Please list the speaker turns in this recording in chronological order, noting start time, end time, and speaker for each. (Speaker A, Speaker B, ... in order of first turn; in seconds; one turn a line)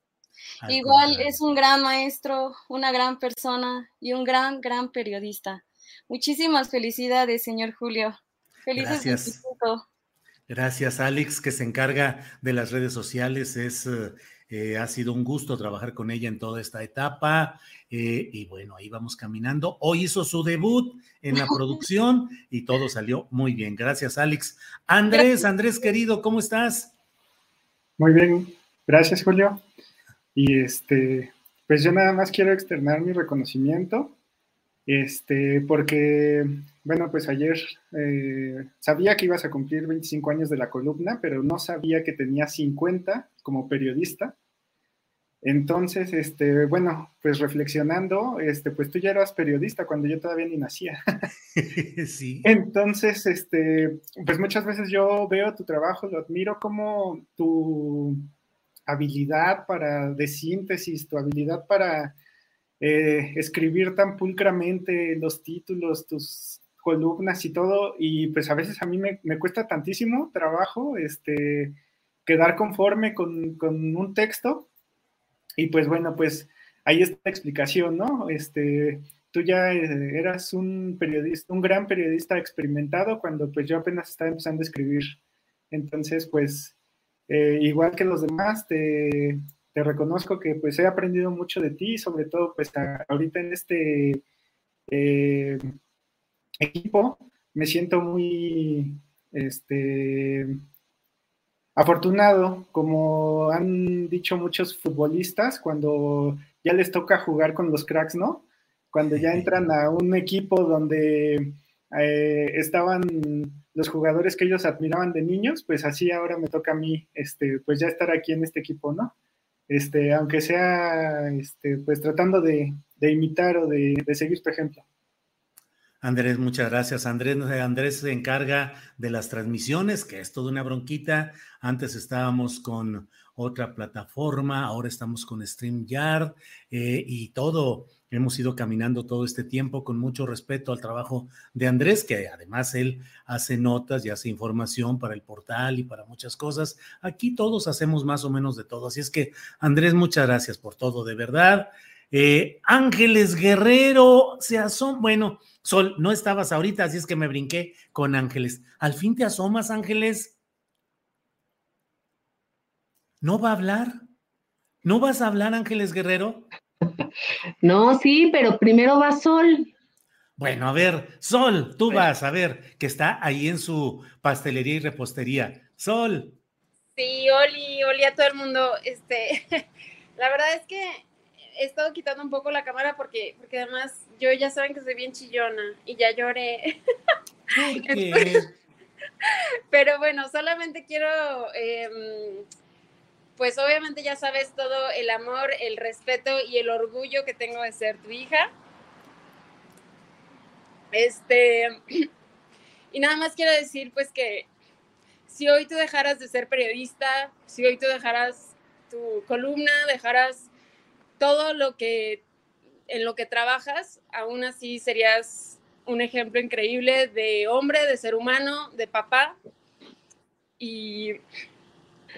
Speaker A: 0.6-1.6
Speaker B: 0.7-8.2
Speaker B: 8.7-9.8
Speaker A: 8.8-9.4
Speaker A: 10.5-26.9
Speaker C: 28.0-29.6
Speaker C: 30.4-34.1
Speaker C: 34.9-44.4
Speaker C: 45.4-51.0
Speaker A: 51.6-52.5
Speaker C: 52.4-58.2
Speaker C: 58.9-62.2
Speaker C: 62.8-74.7
Speaker C: 75.6-85.2
Speaker C: 85.7-86.8
Speaker C: 87.3-94.2
Speaker C: 94.9-95.6
Speaker C: 96.6-100.6
Speaker C: 101.8-119.1
Speaker A: 109.2-109.5
Speaker C: 119.7-124.8
Speaker A: 126.0-160.3
Speaker A: 163.2-164.0
Speaker A: 164.8-166.5
Speaker D: 167.6-169.7
Speaker A: 170.4-176.4
Speaker E: 177.0-179.6
Speaker E: 180.2-186.8
Speaker A: 187.5-188.6
Speaker E: 187.8-188.4
Speaker E: 189.7-192.5
Speaker E: 193.4-198.5
Speaker E: 200.9-201.8
Speaker E: 202.9-204.5
Speaker E: 205.3-210.5
Speaker E: 211.2-212.2
Speaker E: 212.9-219.4
Speaker E: 220.6-221.2